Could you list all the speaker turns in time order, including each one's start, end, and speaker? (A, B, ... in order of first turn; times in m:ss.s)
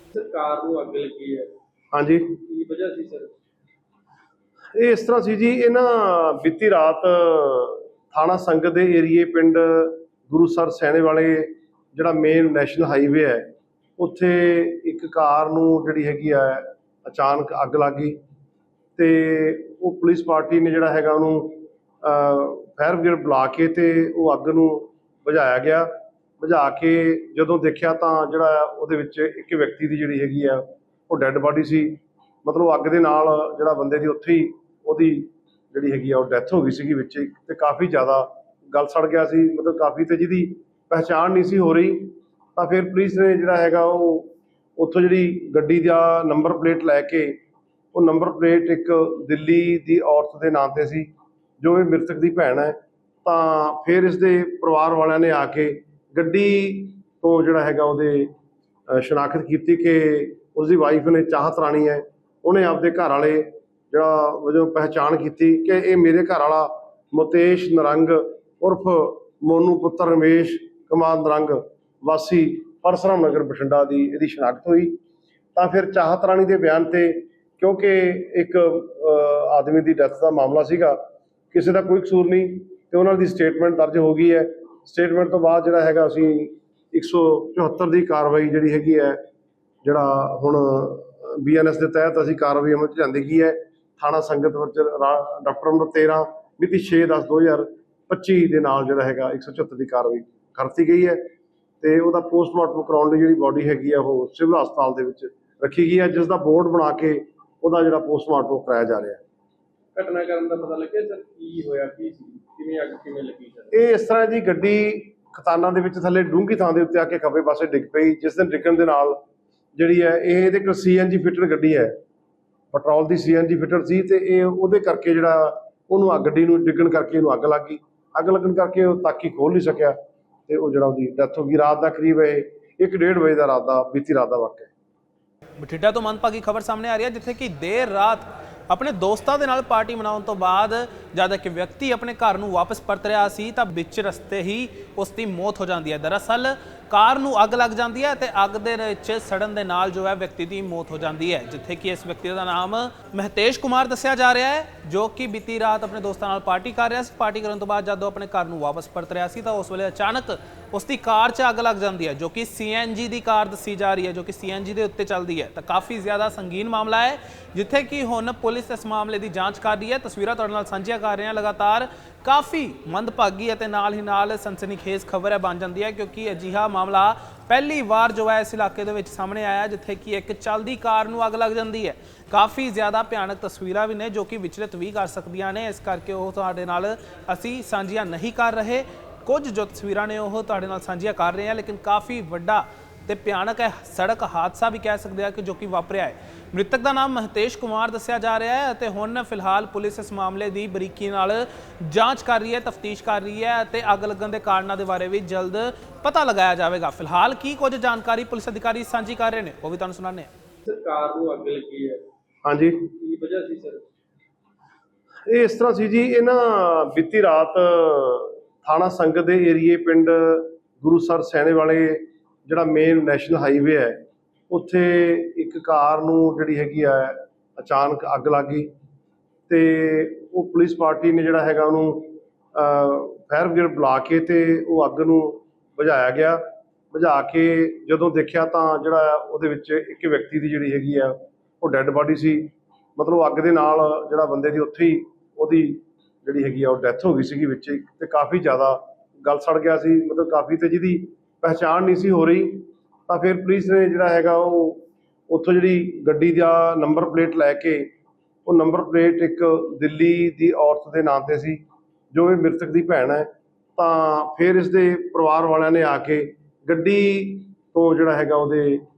0:00.1-0:01.5 A
0:01.9-0:02.4 B
0:02.4-0:03.3 A
0:04.8-0:18.2 B
0:19.0-0:47.4 B
0:47.9-0:58.3 B
0:58.9-1:15.0 B
1:15.6-1:21.0 B
1:21.5-1:29.2 B
1:29.8-1:41.3 B
1:41.8-1:49.2 B
1:50.0-1:53.7 A
1:53.7-1:59.2 B
1:59.8-2:02.0 B
2:02.7-2:10.0 B
2:10.5-2:14.7 B
2:15.6-3:30.3 C
3:30.6-3:32.0 A
3:32.4-3:32.9 B
3:33.0-3:33.8 A
3:35.3-3:48.7 B
3:49.5-4:17.9 B
4:18.4-4:28.8 B